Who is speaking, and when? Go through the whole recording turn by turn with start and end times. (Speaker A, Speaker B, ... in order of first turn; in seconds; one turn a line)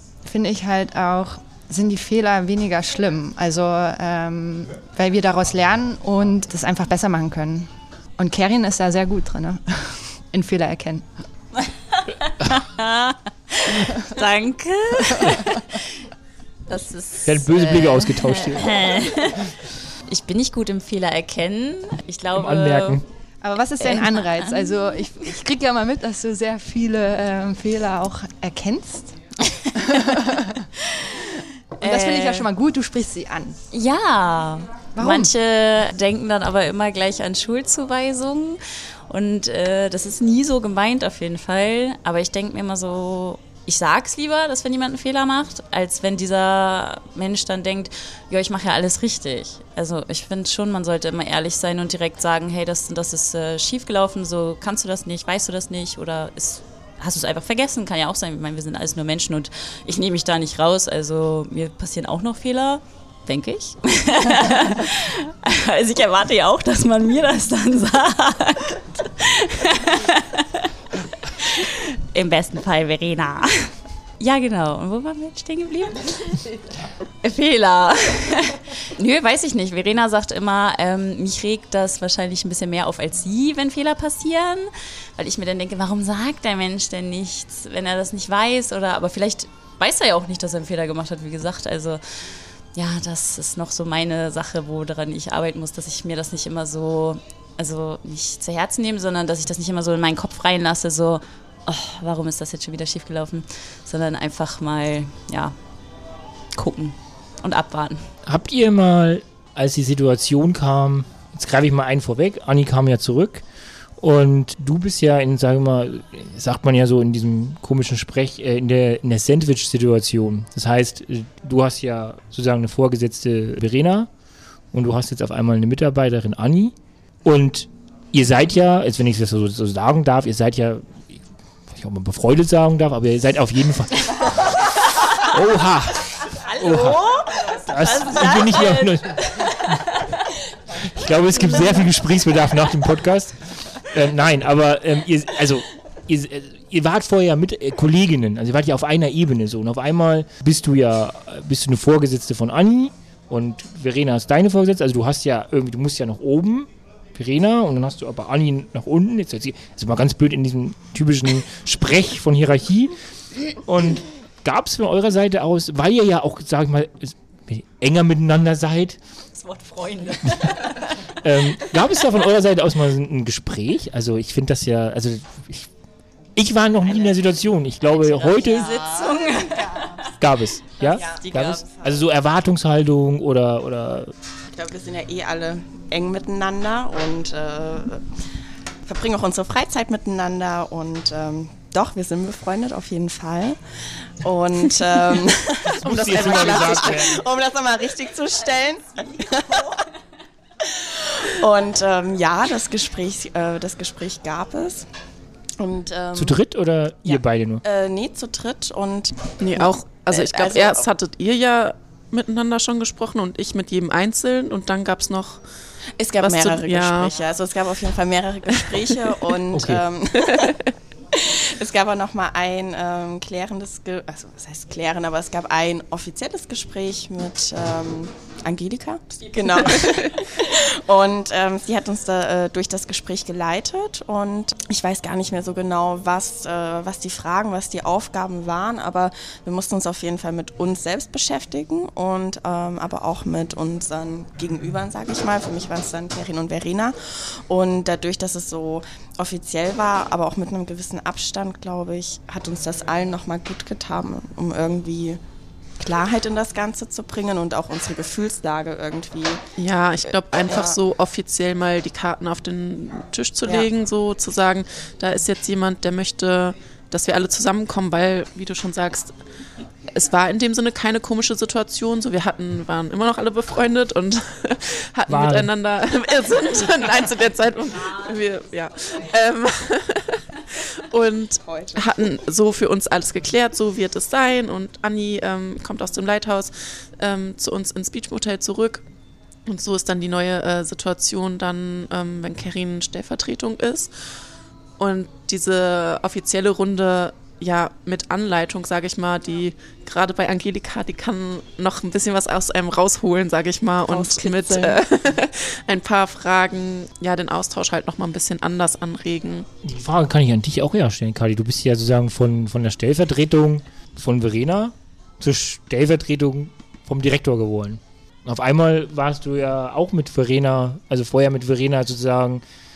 Speaker A: 0.2-11.1
Speaker B: 11.9-16.0
Speaker B: 16.7-23.0
Speaker C: 17.2-19.0
Speaker C: 22.3-23.0
Speaker A: 23.4-29.2
Speaker B: 23.8-24.8
Speaker B: 29.4-30.2
Speaker A: 29.7-30.7
Speaker B: 30.8-31.2
Speaker B: 31.8-32.5
Speaker A: 31.8-33.6
Speaker B: 33.7-76.4
Speaker A: 35.0-35.3
Speaker B: 77.2-92.0
Speaker B: 92.7-105.5
Speaker B: 106.5-108.0
Speaker C: 108.2-113.4
Speaker C: 114.0-124.1
Speaker C: 124.7-131.2
Speaker C: 131.7-139.9
Speaker B: 136.5-140.3
Speaker C: 140.7-162.9
Speaker C: 163.5-169.0
Speaker B: 169.3-171.0
Speaker C: 170.3-175.7
Speaker C: 176.3-178.8
Speaker B: 177.9-180.1
Speaker D: 178.8-179.9
Speaker C: 180.2-184.1
Speaker D: 180.8-181.8
Speaker B: 180.8-181.6
Speaker D: 184.5-188.1
Speaker D: 188.8-199.9
Speaker C: 195.7-197.2
Speaker D: 200.6-204.8
Speaker D: 205.6-206.4
Speaker C: 206.2-207.6
Speaker D: 207.1-210.8
Speaker E: 209.4-215.4
Speaker D: 216.0-220.6
Speaker E: 216.2-217.1
Speaker C: 219.5-219.8
Speaker E: 220.3-220.6
Speaker D: 221.1-255.2
Speaker E: 229.6-230.1
Speaker D: 255.8-259.4
Speaker E: 259.6-269.1
Speaker D: 260.4-260.8
Speaker E: 269.9-288.8
Speaker C: 275.1-275.5
Speaker D: 281.4-282.1
Speaker E: 289.5-293.9
Speaker E: 294.8-309.5
Speaker D: 303.9-305.1
Speaker C: 309.6-322.4